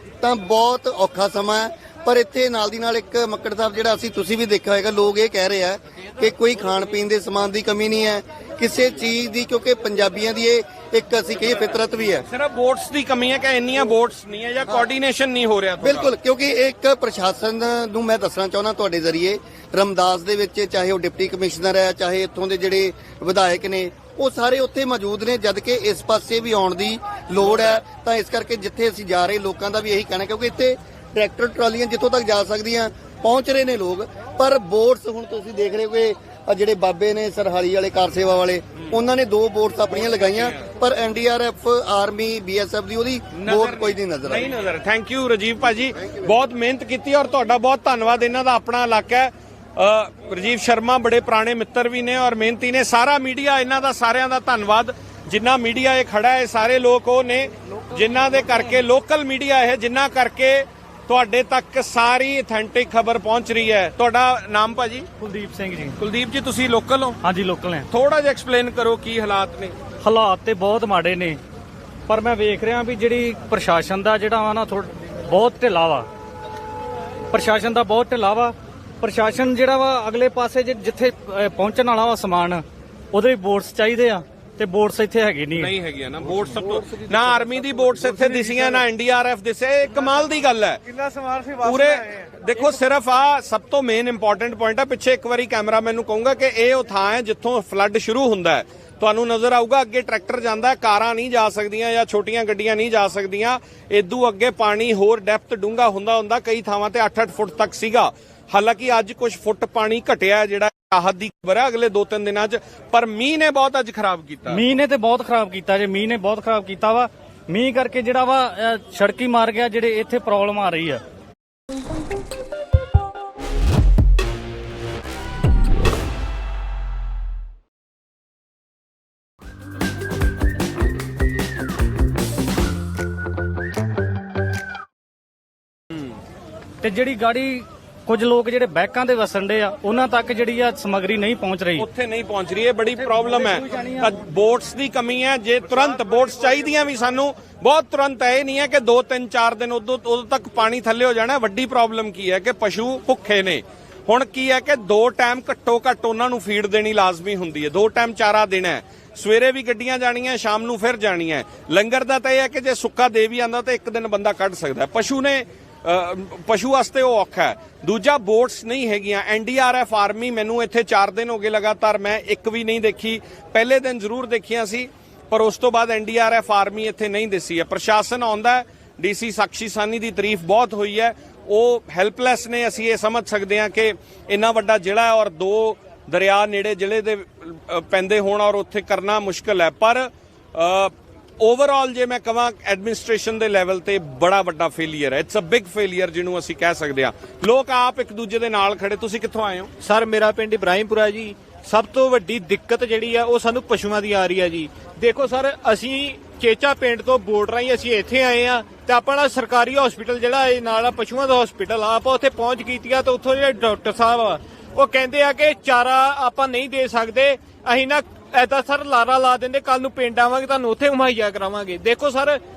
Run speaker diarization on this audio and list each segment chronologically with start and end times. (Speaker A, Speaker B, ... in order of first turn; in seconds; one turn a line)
Speaker A: 0.2-12.2
Speaker B: 12.3-16.1
Speaker A: 15.8-44.5
Speaker B: 40.0-40.6
Speaker B: 43.4-65.1
Speaker C: 65.2-66.0
Speaker B: 66.0-67.2
Speaker C: 67.2-67.9
Speaker B: 67.9-69.8
Speaker C: 70.0-71.4
Speaker C: 72.1-76.1
Speaker C: 77.3-85.7
Speaker B: 85.5-114.6
Speaker C: 114.5-121.0
Speaker C: 136.8-141.9
Speaker B: 141.8-199.7
Speaker C: 143.1-144.1
Speaker D: 199.8-222.4